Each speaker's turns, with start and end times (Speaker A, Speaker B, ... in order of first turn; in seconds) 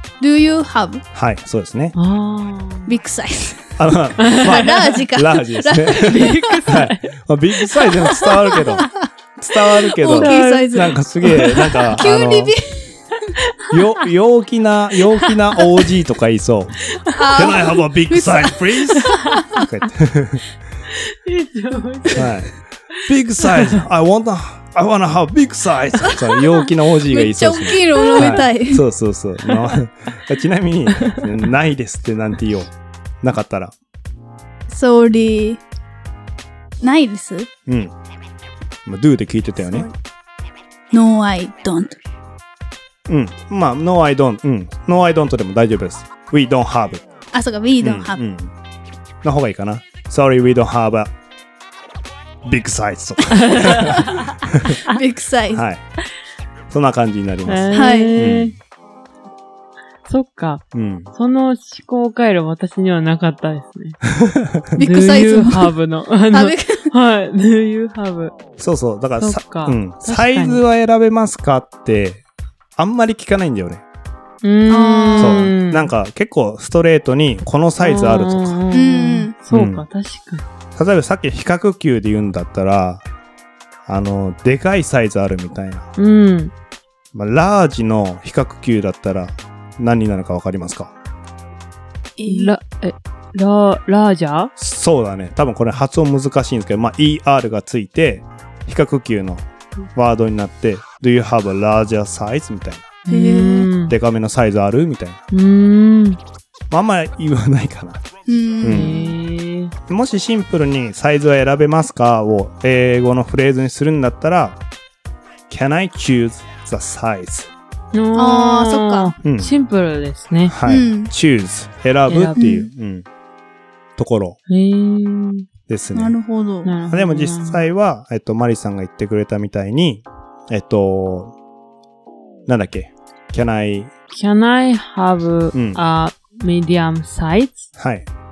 Speaker A: 0.2-1.0, 2.9-3.7, 4.3-6.7, 7.9-8.9, 9.7-13.3, 17.1-19.6, 26.0-26.4, 27.1-28.8, 34.7-35.6, 36.8-37.5, 39.6-39.9, 40.9-42.0, 47.3-48.2, 54.7-55.6, 57.7-58.1, 64.8-65.7, 66.3-66.9, 74.7-75.5, 78.7-79.3, 92.2-92.6, 103.1-103.7, 108.3-109.2, 118.1-119.1, 120.7-121.1, 122.4-122.7, 125.9-126.7
Speaker B: 1.1-2.0, 3.8-12.5, 13.7-20.4, 22.1-22.5, 23.0-32.7, 33.2-33.7, 37.7-37.9, 38.9-39.9, 43.1-47.0, 47.8-48.5, 49.2-51.1, 52.4-54.8, 55.5-55.8, 56.7-58.5, 60.7-61.1, 64.0-64.7, 68.6-72.2, 72.8-73.8, 75.2-78.6, 79.5-79.8, 80.8-83.0, 83.9-85.9, 87.1-90.9, 94.6-103.0, 103.9-105.2, 106.7-108.1, 108.6-109.0, 109.9-114.6, 115.5-117.5, 119.2-119.5, 120.5-123.1, 124.0-124.4, 125.7-126.2, 126.9-131.3, 132.5-133.9, 135.5-135.8, 137.8-138.1
Speaker C: 2.0-2.9, 4.2-4.9, 6.0-7.1, 10.1-10.8, 19.1-19.4, 20.9-22.3, 23.4-23.8, 28.1-28.4, 53.4-54.3, 57.5-58.5, 60.1-64.0, 64.8-68.3, 69.2-70.6, 74.4-75.9, 77.8-80.5, 86.0-86.5, 92.3-94.5, 103.1-103.9, 105.3-106.2, 108.7-109.7, 117.9-120.5, 122.1-122.4, 124.5-125.5, 126.7-127.6, 134.1-137.7